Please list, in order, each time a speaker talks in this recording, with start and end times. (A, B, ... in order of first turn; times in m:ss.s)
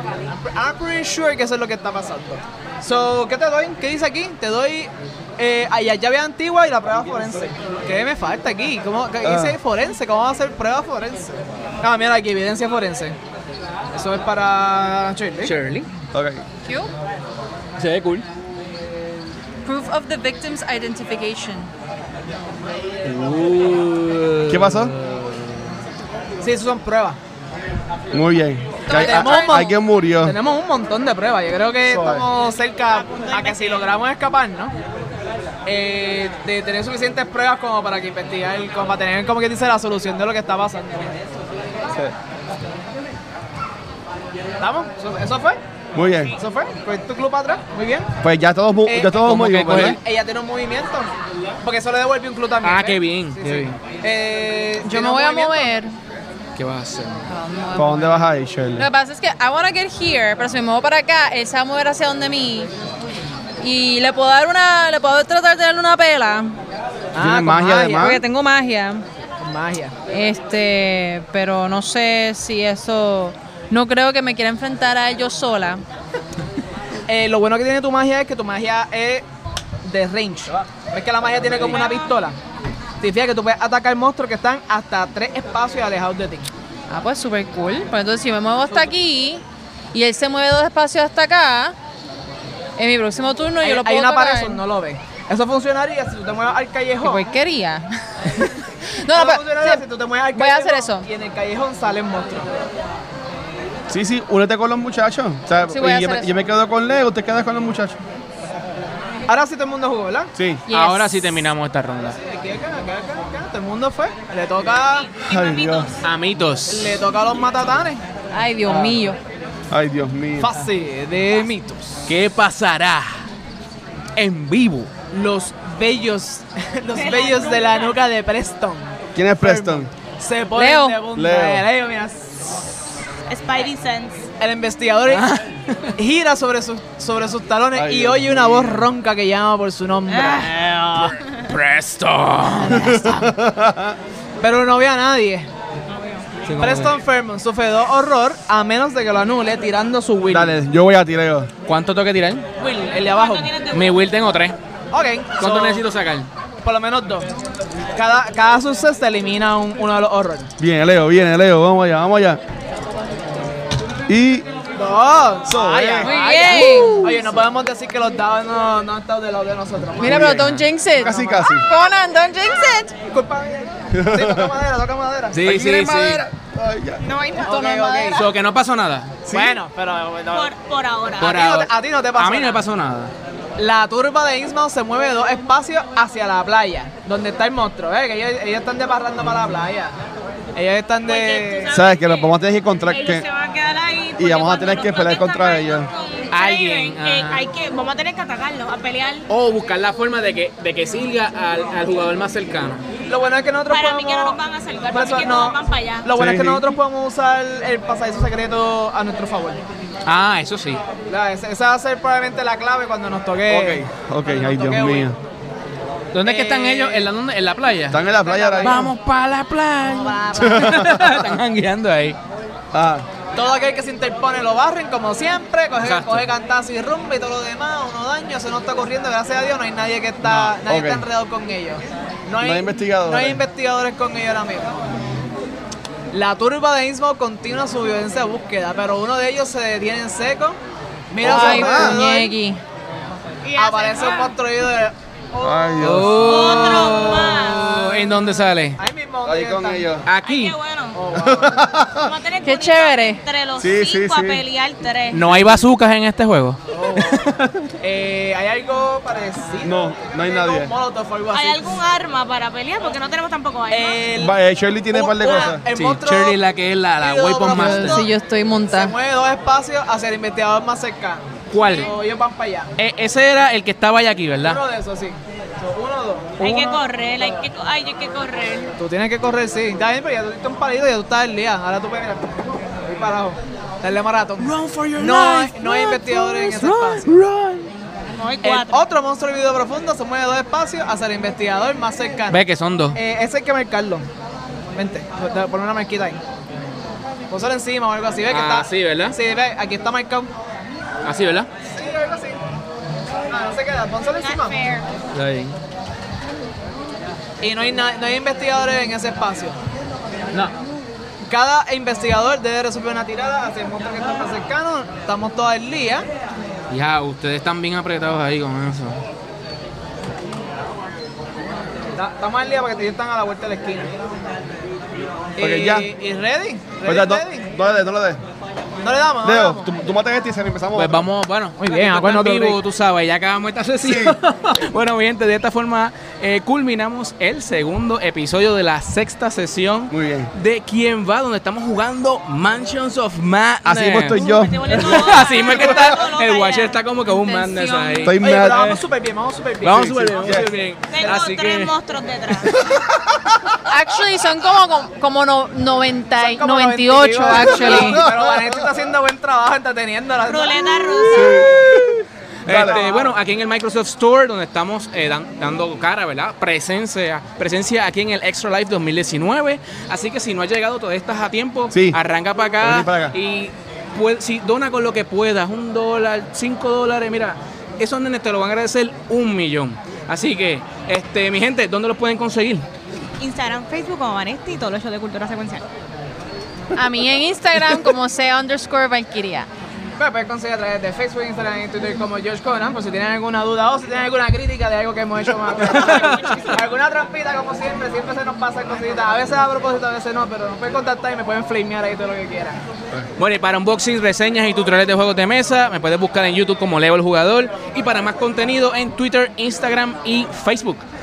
0:00.3-0:13.2 A
0:09.2-0:09.6 B
0:13.9-0:15.5 A
0:15.4-0:15.9 C
0:16.1-0:16.4 B
0:16.6-0:16.9 D
0:17.8-0:18.2 C
0:19.6-0:21.7 D
0:23.0-0:25.6 C
0:24.5-0:24.9 B
0:26.4-0:27.2 A
0:28.1-0:30.4 B
0:28.9-0:29.7 D
0:28.9-0:34.7 A
0:31.9-0:32.2 B
0:32.9-0:33.9 E
0:35.6-0:41.1 A
0:44.6-0:45.6 A
0:46.0-0:46.4 B
0:46.4-0:48.1 A
0:48.2-0:50.0 B
0:48.9-0:51.1 A
0:49.2-0:50.0 C
0:51.6-0:55.8 A
0:52.6-0:53.8 C
0:54.8-0:55.9 D
0:56.6-0:57.3 C
0:57.3-0:58.2 D
0:57.8-0:58.9 B
0:58.8-1:02.7 D
1:03.6-1:06.6 D
1:07.1-1:08.2 A
1:07.2-1:08.2 B
1:07.9-1:09.0 D
1:09.4-1:10.0 A
1:10.1-1:15.8 D
1:17.1-1:19.2 A
1:19.8-1:22.4 A
1:21.6-1:22.2 E
1:23.0-1:26.5 A
1:26.9-1:31.8 D
1:32.8-1:34.6 D
1:33.6-1:37.3 A
1:37.0-1:39.8 D
1:39.1-1:42.5 A
1:40.4-1:41.1 D
1:43.9-1:48.0 B
1:45.7-1:46.3 D
1:49.3-1:50.3 A
1:50.4-1:50.6 B
1:50.7-1:51.4 D
1:50.7-1:52.2 C
1:52.2-1:55.1 A
1:54.8-1:56.1 E
1:55.3-1:55.9 B
1:56.0-1:57.0 C
1:56.7-1:58.0 A
1:58.3-1:59.2 D
1:59.7-2:00.5 B
2:00.4-2:02.1 A
2:02.1-2:03.2 C
2:04.2-2:04.9 C
2:05.1-2:12.9 A
2:06.9-2:08.0 E
2:09.2-2:09.9 B
2:10.6-2:11.0 D
2:11.1-2:11.7 B
2:13.3-2:14.3 E
2:14.4-2:15.3 A
2:15.1-2:15.9 C
2:16.0-2:20.6 A
2:17.8-2:18.9 B
2:20.1-2:20.5 E
2:20.4-2:23.0 C
2:22.7-2:24.0 B
2:24.4-2:25.5 A
2:25.9-2:26.3 E
2:26.4-2:27.0 C
2:26.6-2:30.6 A
2:30.3-2:31.5 B
2:31.6-2:32.5 C
2:32.6-2:33.5 A
2:32.8-2:34.0 E
2:33.7-2:34.6 C
2:34.9-2:35.8 A
2:35.4-2:36.3 C
2:36.6-2:37.3 A
2:38.0-2:40.5 A
2:40.6-2:42.4 B
2:44.1-2:44.5 B
2:44.8-2:50.5 A
2:45.5-2:47.1 B
2:46.0-2:47.1 D
2:50.0-2:51.7 B
2:50.0-2:52.9 D
2:53.1-2:55.4 A
2:53.9-2:54.5 B
2:55.3-2:56.2 C
2:55.4-2:57.0 B
2:57.0-2:58.3 E
2:57.4-2:58.3 A
2:58.1-2:59.2 C
2:59.3-2:59.6 B
2:59.3-3:00.5 A
3:00.3-3:01.4 E
3:01.2-3:03.1 C
3:01.2-3:02.6 A
3:03.6-3:10.0 A
3:10.6-3:11.8 A
3:11.0-3:12.4 E
3:11.7-3:13.3 B
3:12.9-3:19.3 E
3:14.2-3:15.9 B
3:16.3-3:17.5 C
3:19.3-3:22.8 C
3:23.1-3:29.6 A
3:23.7-3:26.1 E
3:26.1-3:26.7 B
3:30.1-3:30.8 C
3:31.1-3:35.1 A
3:33.5-3:35.2 B
3:36.1-3:38.0 C
3:36.2-3:37.1 A
3:37.9-3:38.9 B
3:38.1-3:38.9 A
3:38.6-3:42.2 C
3:39.9-3:40.8 A
3:40.4-3:41.4 B
3:42.7-3:43.1 B
3:43.4-3:54.8 A
3:45.8-3:46.3 C
3:50.2-3:50.6 C
3:50.6-3:51.1 B
3:52.4-3:53.4 B
3:56.1-4:00.6 A
4:01.1-4:02.4 A
4:01.2-4:02.0 B
4:01.2-4:02.6 D
4:03.4-4:04.4 E
4:03.6-4:04.9 A
4:05.4-4:08.1 E
4:05.4-4:06.5 B
4:05.8-4:08.8 C
4:06.5-4:07.0 A
4:08.8-4:09.9 A
4:09.2-4:10.0 B
4:10.1-4:10.6 C
4:10.2-4:11.1 E
4:10.9-4:11.7 A
4:11.2-4:12.1 B
4:12.0-4:15.3 E
4:12.4-4:13.2 D
4:13.6-4:14.4 B
4:15.1-4:17.7 C
4:16.7-4:21.8 A
4:19.6-4:20.7 B
4:21.3-4:24.0 E
4:23.7-4:26.4 A
4:24.2-4:25.6 B
4:25.7-4:28.1 C
4:27.0-4:28.1 A
4:27.5-4:28.9 D
4:28.7-4:32.7 A
4:31.5-4:31.9 C
4:31.6-4:31.9 E
4:32.8-4:34.6 C
4:34.4-4:37.3 A
4:36.4-4:38.8 E
4:38.8-4:42.3 A
4:42.9-4:47.2 A
4:44.4-4:47.7 C
4:48.1-4:48.8 E
4:48.4-4:52.4 A
4:52.3-4:53.0 C
4:52.9-4:54.1 A
4:54.8-4:56.2 A
4:57.3-5:00.3 A
4:58.3-4:59.2 C
5:01.0-5:01.5 C
5:01.7-5:02.4 A
5:03.3-5:04.6 A
5:04.2-5:04.9 E
5:05.1-5:05.6 C
5:07.4-5:09.6 A
5:11.3-5:16.1 A
5:16.7-5:19.0 C
5:22.0-5:23.9 A
5:25.4-5:27.7 A
5:25.4-5:25.9 B
5:26.8-5:28.2 B
5:28.8-5:29.7 A
5:29.2-5:31.0 B
5:30.8-5:48.8 C
5:31.6-5:32.6 A
5:33.8-5:34.2 B
5:39.9-5:40.3 B
5:43.6-5:44.8 B
5:44.1-5:46.8 E
5:47.1-5:48.1 D
5:48.0-5:48.6 B
5:48.2-5:50.6 A
5:49.6-5:51.7 C
5:49.7-5:50.5 B
5:50.9-5:52.6 E
5:52.5-5:53.8 B
5:53.7-5:58.0 D
5:56.2-6:01.4 A
5:57.3-5:58.7 B
6:00.3-6:01.5 E
6:01.0-6:02.9 B
6:02.4-6:22.7 C
6:02.5-6:03.1 A
6:11.7-6:12.0 B
6:12.6-6:13.2 B
6:23.2-6:25.6 E
6:26.8-6:29.5 D
6:30.0-6:42.6 A
6:35.6-6:36.6 C
6:35.7-6:36.7 E
6:43.2-6:50.8 C